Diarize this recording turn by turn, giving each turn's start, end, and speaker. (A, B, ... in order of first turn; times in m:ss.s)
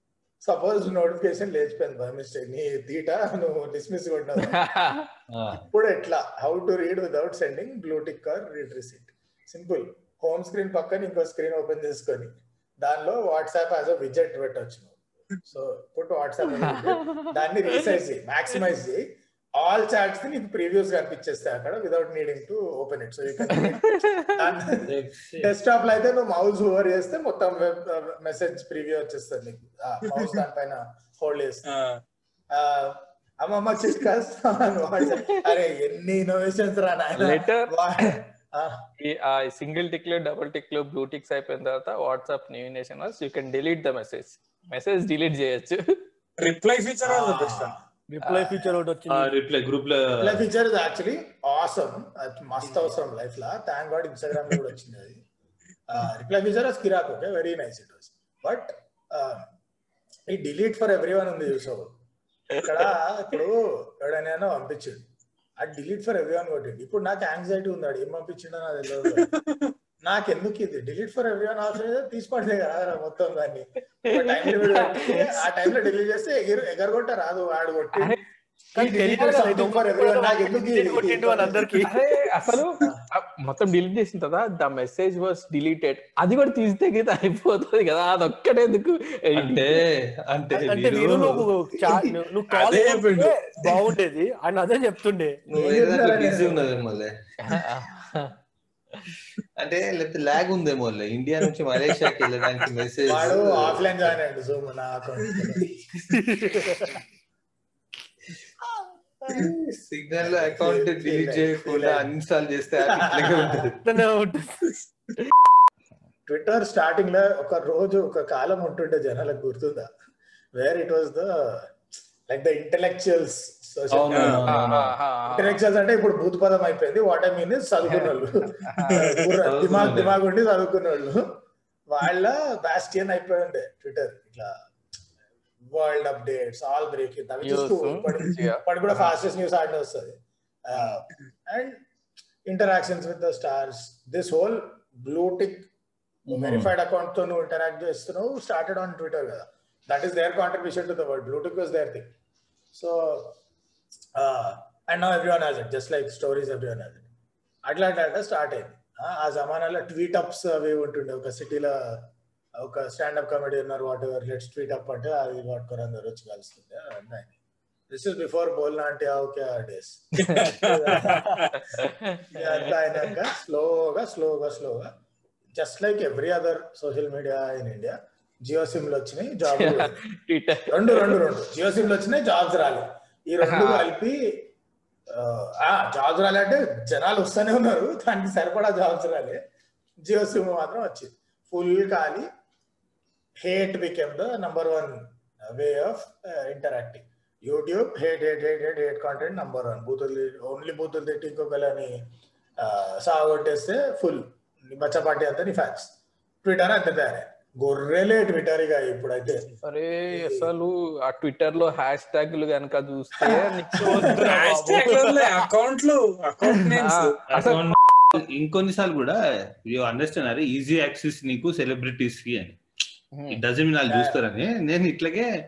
0:00.4-0:04.7 A
0:04.4-0:05.1 B
0:05.3-0:05.7 C
0:05.5-0:19.0 A
0:16.5-0:17.3 B
0:19.6-0:23.8 A
0:23.5-0:24.4 B
0:24.4-0:31.7 A
0:24.9-0:25.5 C
0:31.7-0:32.0 D
0:32.5-0:38.9 A
0:37.2-0:37.7 B
0:39.0-0:46.0 B
0:46.4-0:47.8 D
0:47.0-0:48.8 A
0:48.1-0:49.3 E
0:49.1-0:50.4 C
0:50.2-0:55.2 A
0:55.9-0:59.5 A
1:00.3-1:01.9 A
1:02.6-1:05.1 A
1:05.6-1:09.3 A
1:10.0-1:18.2 A
1:14.1-1:15.7 B
1:18.8-1:21.7 A
1:18.8-1:22.0 E
1:21.7-1:29.8 B
1:29.4-1:32.2 C
1:30.6-1:35.4 E
1:32.5-1:33.9 D
1:35.5-1:37.1 C
1:35.6-1:36.6 A
1:37.4-1:38.4 B
1:39.6-1:44.1 C
1:43.1-1:45.7 A
1:46.1-1:47.0 E
1:49.3-1:52.1 A
1:49.9-1:53.8 C
1:52.8-1:53.7 A
1:53.8-1:54.6 E
1:56.3-1:59.9 A
2:00.6-2:01.8 A
2:02.3-2:04.5 A
2:03.9-2:04.9 C
2:04.1-2:04.4 D
2:04.5-2:05.6 B
2:05.3-2:11.2 A
2:08.6-2:09.0 B
2:08.8-2:09.3 D
2:09.4-2:10.2 C
2:11.9-2:14.5 A
2:15.7-2:21.8 A
2:17.4-2:18.6 B
2:22.5-2:25.7 A
2:26.3-2:26.7 C
2:26.3-2:32.1 A
2:32.7-2:33.4 A
2:34.2-2:37.1 A
2:37.7-2:47.3 A
2:47.9-2:51.4 A
2:50.2-2:51.5 D
2:51.5-2:53.2 B
2:52.3-2:54.9 A
2:55.6-3:00.0 A
2:59.5-3:01.2 B
3:00.7-3:04.5 A
3:03.4-3:03.9 B
3:05.1-3:09.4 A
3:10.0-3:12.3 A
3:13.4-3:22.0 A
3:22.6-3:29.5 A
3:29.6-3:34.3 B
3:30.1-3:30.5 A
3:33.2-3:34.3 A
3:33.7-3:35.3 E
3:34.3-3:37.2 D
3:36.5-3:38.2 B
3:37.3-3:42.6 C
3:43.1-3:43.4 B
3:43.3-3:45.3 C
3:43.9-3:44.2 A